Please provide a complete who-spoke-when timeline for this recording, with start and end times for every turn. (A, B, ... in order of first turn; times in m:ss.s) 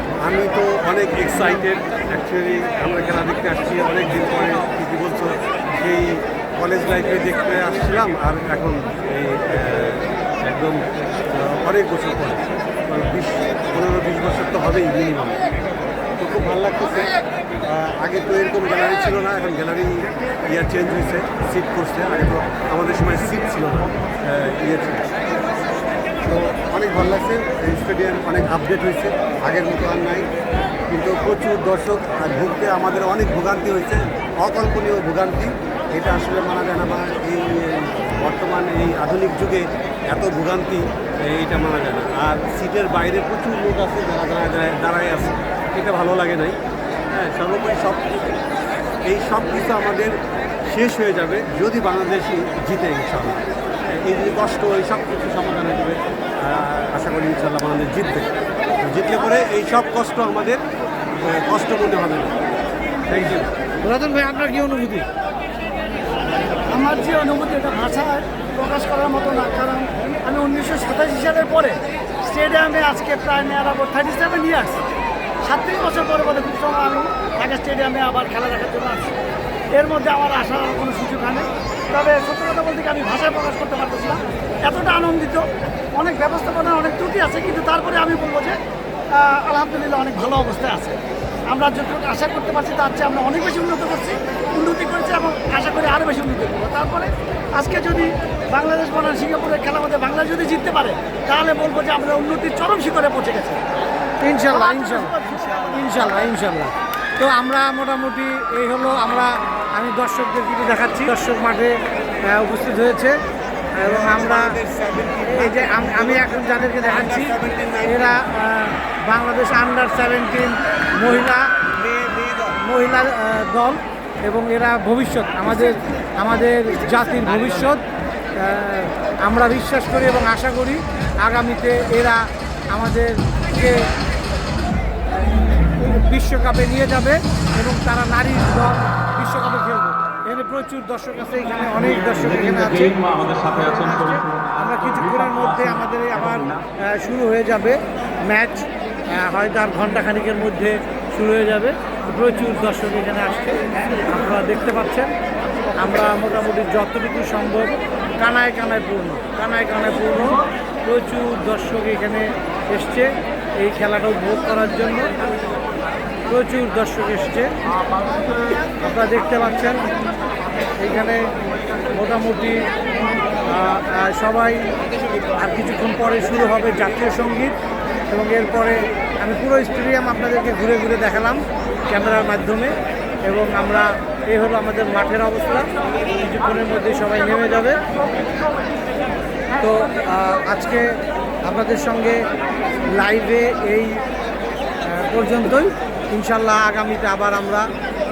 0:00.2-0:15.4 A
0:16.2-0:17.1 A
0:17.6-0:25.1 A
0:26.2-0:30.3 A
0:30.9-0:46.6 A
0:47.1-0:48.4 A
0:49.1-0:50.2 A
0:50.7-0:58.3 A
0:58.8-1:00.6 A
1:01.2-1:02.4 A
1:03.1-1:03.5 A
1:03.8-1:05.1 B
1:06.7-1:14.9 C
1:15.4-1:19.2 C
1:19.7-1:28.6 C
1:29.1-1:43.6 C
1:44.2-1:53.2 B
1:44.5-1:45.8 C
1:53.8-1:54.6 B
1:53.8-1:58.2 A
1:55.3-2:01.5 B
2:01.8-2:02.6 A
2:02.6-2:07.8 B
2:08.4-2:13.9 B
2:15.8-2:35.1 B
2:35.8-2:45.1 B
2:46.3-2:47.5 B
2:48.8-2:49.8 B
2:50.8-2:51.2 B
2:51.9-2:52.6 B
2:53.5-2:54.7 B
2:55.3-2:57.6 B
2:58.1-3:02.7 B
3:03.3-3:07.8 B
3:09.6-3:12.2 B
3:12.9-3:14.0 B
3:14.9-3:17.7 B